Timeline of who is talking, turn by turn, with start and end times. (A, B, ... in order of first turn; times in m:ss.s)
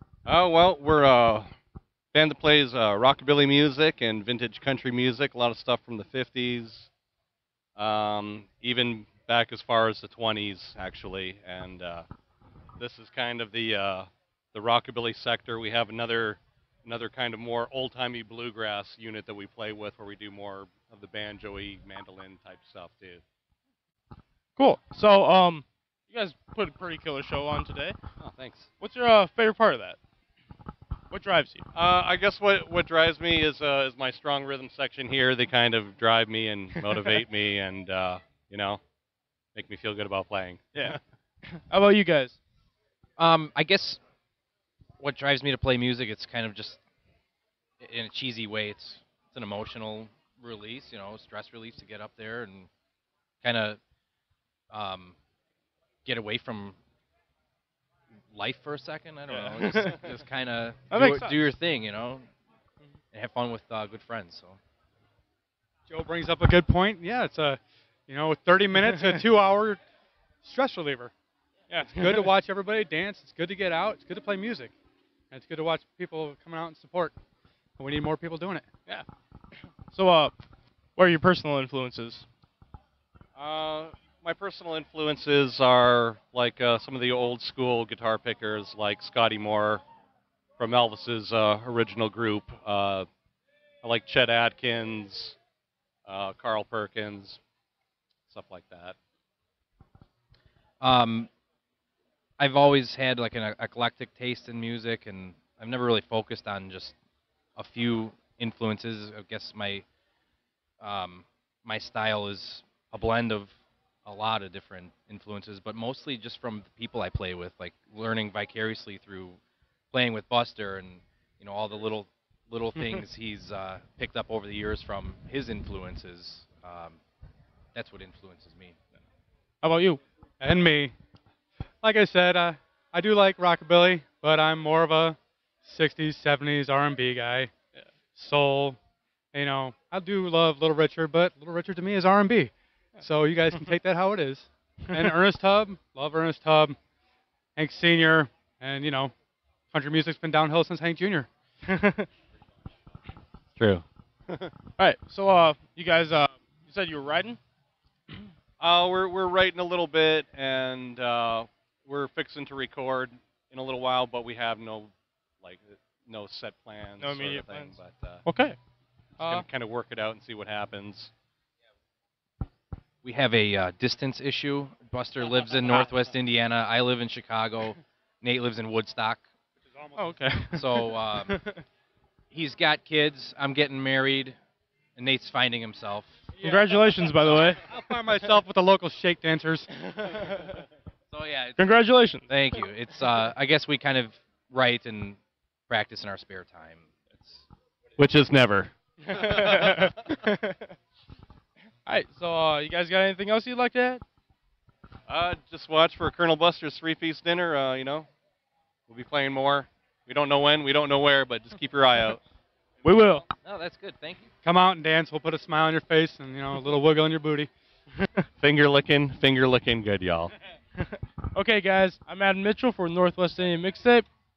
0:00.2-0:01.5 A
0:02.1-0:06.8 A
0:07.8-0:12.1 A
0:12.8-0:23.2 A
0:24.6-0:28.0 B
0:28.8-0:30.0 B
0:31.1-0:31.6 B
0:31.9-0:38.8 A
0:36.8-0:37.2 B
0:39.5-0:40.6 A
0:40.7-0:42.4 B
0:43.2-0:44.0 C
0:45.0-0:46.8 C
0:47.8-0:52.7 C
0:53.4-0:53.8 C
0:54.7-0:55.2 C
0:56.0-0:56.8 C
0:58.3-1:02.3 C
0:59.3-1:00.0 B
1:00.9-1:01.4 B
1:03.1-1:04.6 C
1:05.9-1:09.8 D
1:10.4-1:11.1 D
1:11.7-1:12.3 B
1:11.8-1:14.7 D
1:15.3-1:17.1 D
1:17.8-1:18.7 D
1:19.9-1:20.4 B
1:21.0-1:22.2 B
1:23.5-1:29.8 A
1:30.6-1:33.1 A
1:33.8-1:35.4 A
1:36.0-1:37.4 A
1:38.3-1:39.0 A
1:40.8-1:41.3 C
1:42.4-1:47.0 C
1:47.6-1:49.8 C
1:50.8-1:53.5 C
1:54.0-1:59.4 C
1:59.9-2:07.0 C
2:07.7-2:08.8 C
2:09.6-2:10.0 B
2:10.4-2:10.9 D
2:11.8-2:17.5 D
2:18.1-2:18.8 D
2:19.3-2:26.8 D
2:27.6-2:29.1 D
2:29.7-2:31.3 D
2:31.7-2:32.1 B
2:33.6-2:33.8 A
2:34.8-2:37.4 B
2:38.6-2:44.9 A
2:46.1-2:47.4 A
2:47.0-2:48.6 B
2:49.2-2:49.5 B
2:49.2-2:51.1 A
2:53.0-2:59.2 C
2:59.6-3:00.4 D
3:00.0-3:01.6 B
3:00.5-3:01.4 C
3:02.3-3:04.4 C
3:05.0-3:06.2 C
3:06.4-3:06.7 D
3:06.4-3:07.6 B
3:07.6-3:09.7 D
3:11.1-3:11.6 C
3:11.6-3:12.2 B
3:12.3-3:15.2 C
3:15.7-3:17.4 C
3:18.0-3:18.7 A
3:19.0-3:20.7 B
3:21.8-3:24.0 B
3:25.1-3:28.1 A
3:28.9-3:32.2 A
3:32.8-3:33.2 B
3:33.4-3:34.3 C
3:34.4-3:37.5 D
3:38.4-3:40.3 A
3:41.3-3:44.1 B